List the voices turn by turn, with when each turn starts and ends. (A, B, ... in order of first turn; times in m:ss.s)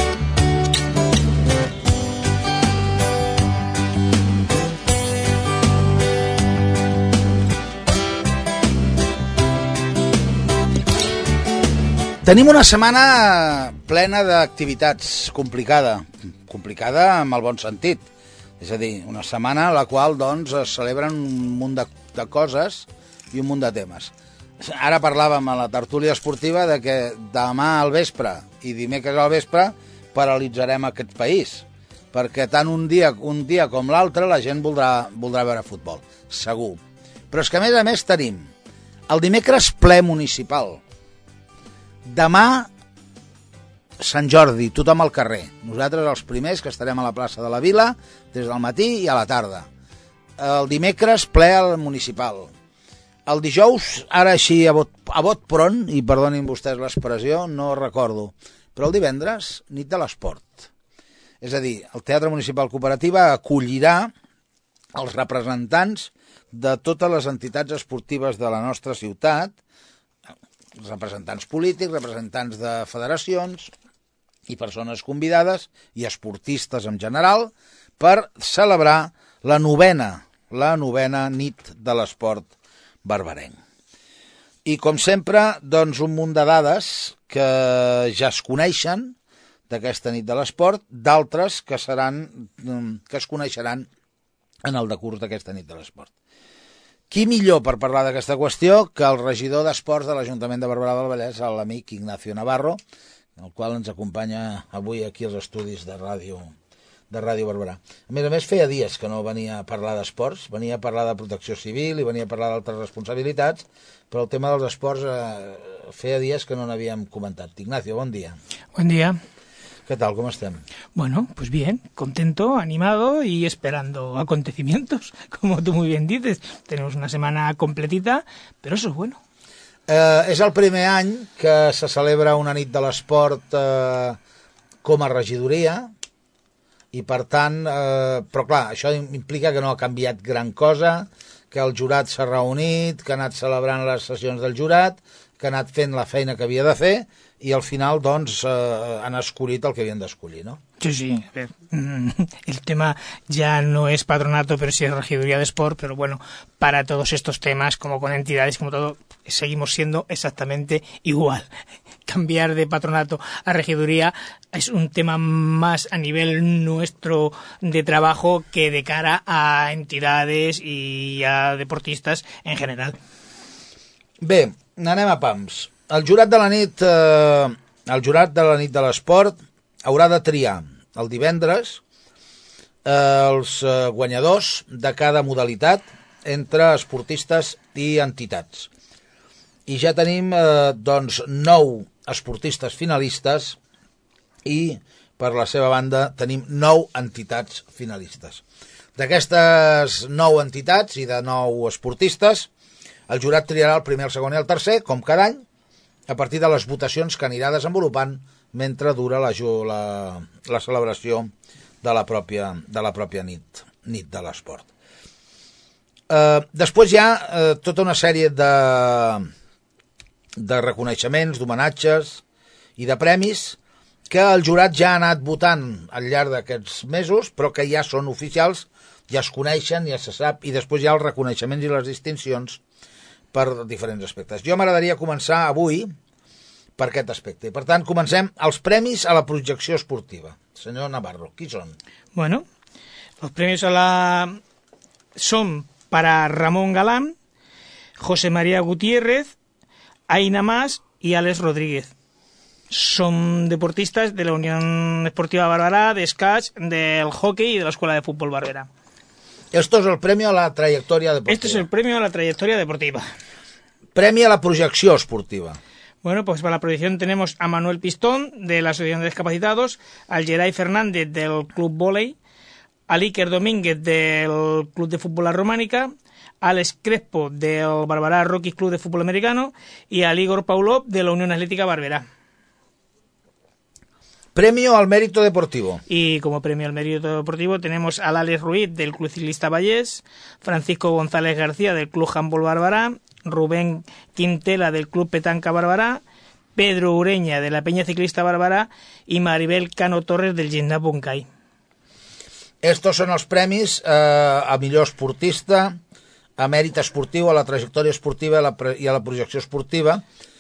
0:12.2-0:18.0 A
0:18.6-0:38.5 A
0:39.1-0:40.8 A
0:42.0-0:42.7 A
0:44.0-0:49.7 A
0:50.4-0:52.5 A
0:53.2-1:00.7 A
1:01.4-1:04.1 A
1:04.9-1:09.6 A
1:10.8-1:13.7 A
1:14.5-1:22.5 A
1:23.0-1:23.6 A
1:24.6-1:29.2 A
1:29.7-1:33.9 A
1:34.6-1:36.1 A
1:37.1-1:42.8 A
1:43.4-1:46.5 A
1:47.1-1:58.4 A
1:58.7-1:59.2 B
1:59.9-2:00.6 A
2:00.9-2:09.2 B
2:09.9-2:14.2 A
2:14.8-2:15.9 A
2:16.9-2:30.6 A
2:30.8-2:41.5 B
2:42.1-2:53.0 B
2:54.2-3:01.8 A
3:02.8-3:08.7 A
3:09.7-3:13.6 A
3:14.4-3:18.4 A
3:19.0-3:22.5 A
3:23.1-3:25.4 A
3:26.1-3:31.3 A
3:31.8-3:34.7 A
3:36.1-3:39.3 A
3:40.4-3:42.2 A
3:42.8-3:52.6 A
3:53.3-3:55.9 A
3:56.8-4:01.8 A
4:02.1-4:02.4 B
4:03.2-4:04.4 B
4:05.2-4:07.1 B
4:08.0-4:09.3 B
4:10.1-4:11.9 B
4:12.7-4:18.7 B
4:19.5-4:21.6 A
4:21.3-4:23.0 B
4:23.9-4:25.6 A
4:26.0-4:32.2 B
4:32.9-4:35.9 B
4:36.4-4:42.0 B
4:44.3-4:45.8 A
4:45.9-4:56.0 B
4:56.6-5:01.2 B
5:02.6-5:05.8 A
5:06.4-5:10.0 A